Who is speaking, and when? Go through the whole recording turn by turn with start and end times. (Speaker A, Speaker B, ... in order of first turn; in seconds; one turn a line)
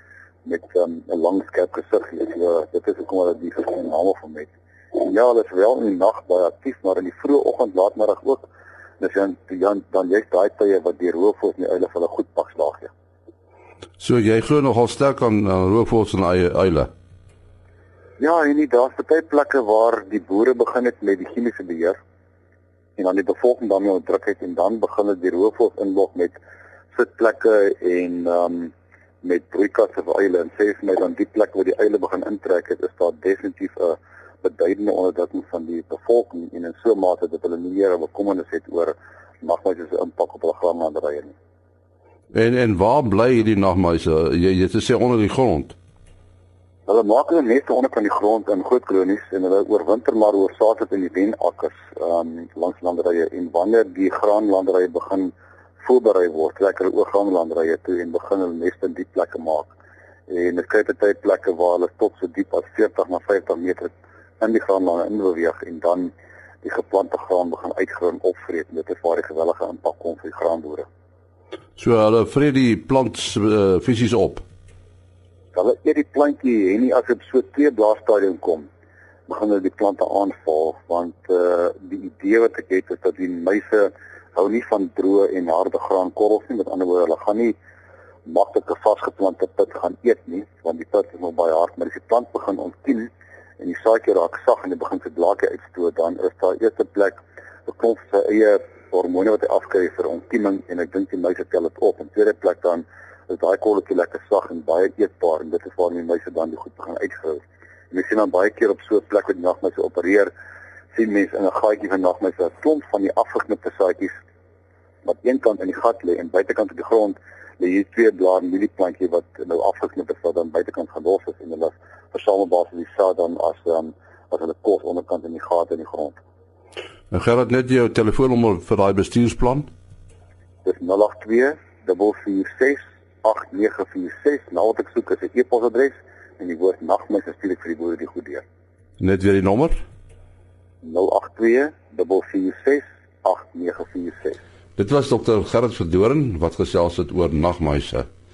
Speaker A: 0.5-8.5
Speaker A: 9.0-12.9
Speaker B: 14.0-16.9
Speaker A: 18.2-22.0
Speaker A: 23.0-26.4
Speaker A: 26.9-28.7
Speaker A: 29.2-41.3
Speaker B: 42.3-45.8
Speaker A: 46.9-59.7
Speaker A: 60.3-66.1
Speaker A: 66.6-70.9
Speaker B: 71.8-74.4
Speaker A: 75.5-78.7
Speaker A: 79.3-87.5
Speaker A: 88.3-110.3
Speaker A: 110.9-114.1
Speaker A: 115.0-126.2
Speaker B: 127.1-129.7
Speaker A: 130.6-138.4
Speaker B: 139.0-139.8
Speaker A: 140.8-144.4
Speaker B: 144.8-148.1